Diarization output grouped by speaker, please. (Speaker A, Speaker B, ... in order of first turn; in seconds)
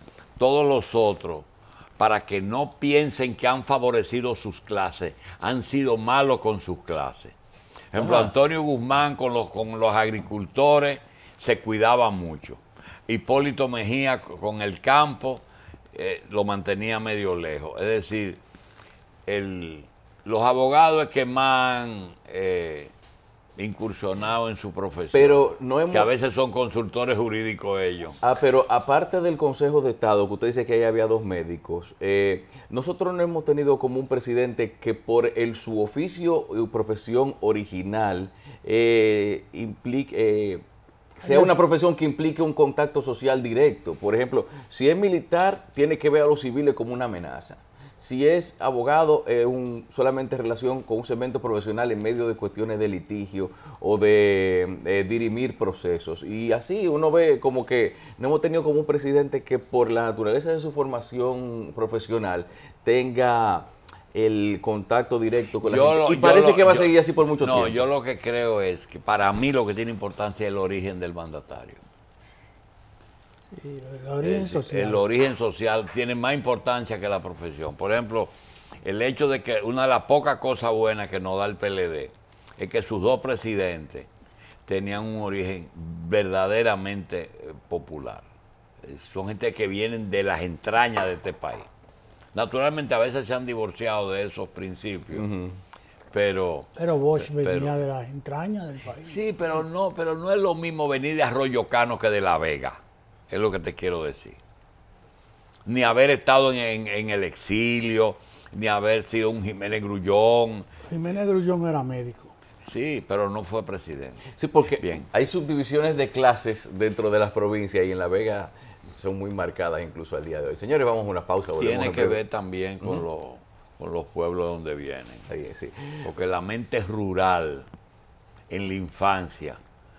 Speaker A: 0.4-7.3, 7.9-18.4, 19.3-22.9, 23.6-28.2, 65.6-71.8, 74.2-78.3, 78.8-84.1, 84.7-88.3, 88.8-91.7, 92.3-95.3, 96.1-97.8, 99.0-104.4, 105.7-110.7, 112.6-115.1, 121.6-125.3, 126.0-127.7, 128.5-129.6
Speaker B: 8.0-8.3, 25.1-26.1, 28.2-40.6, 41.2-67.9, 95.1-95.6, 114.3-122.2, 125.3-126.1
Speaker C: 41.2-41.5, 73.5-75.0, 96.8-99.2, 110.9-112.3